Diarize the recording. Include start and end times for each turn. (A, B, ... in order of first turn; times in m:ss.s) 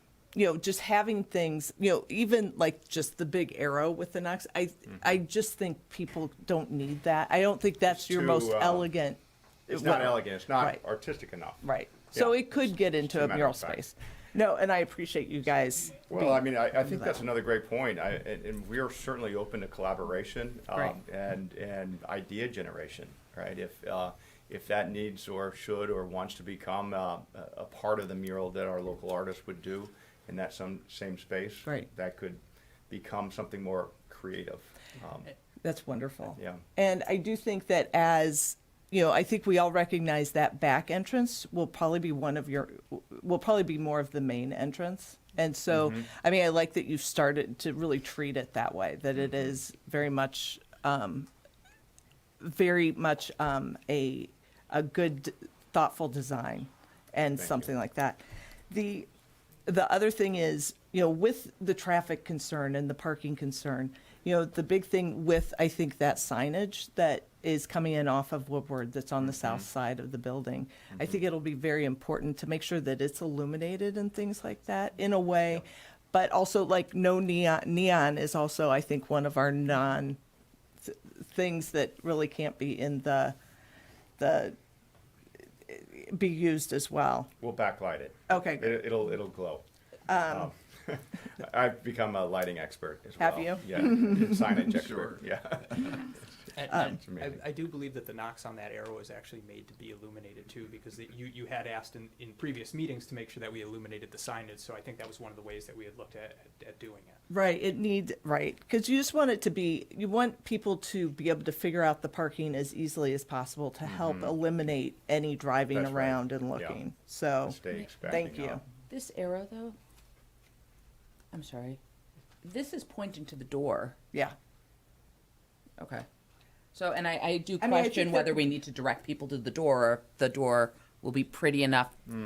0:00.4-0:10.8 A
0:07.9-0:08.9 B
0:09.7-0:13.8 B
0:11.6-0:17.1 A
0:16.1-0:35.3 B
0:35.6-0:51.3 A
0:36.4-0:36.6 B
0:45.7-0:46.0 B
0:52.4-0:59.1 A
0:57.4-0:57.7 B
0:59.7-1:20.2 A
1:20.8-1:23.4 A
1:24.2-1:24.6 A
1:25.7-1:27.3 A
1:27.4-1:29.6 B
1:28.3-1:28.8 A
1:30.1-1:30.5 A
1:30.3-1:36.3 B
1:33.2-1:34.4 A
1:36.6-1:47.2 C
1:36.7-1:37.0 A
1:36.8-1:37.4 B
1:47.3-1:58.6 A
1:53.8-1:54.4 B
1:55.7-1:56.8 B
1:57.4-1:58.6 B
1:58.9-1:59.8 D
2:01.3-2:01.8 D
2:02.4-2:04.0 D
2:05.8-2:06.0 D
2:06.7-2:12.0 D
2:07.6-2:08.4 A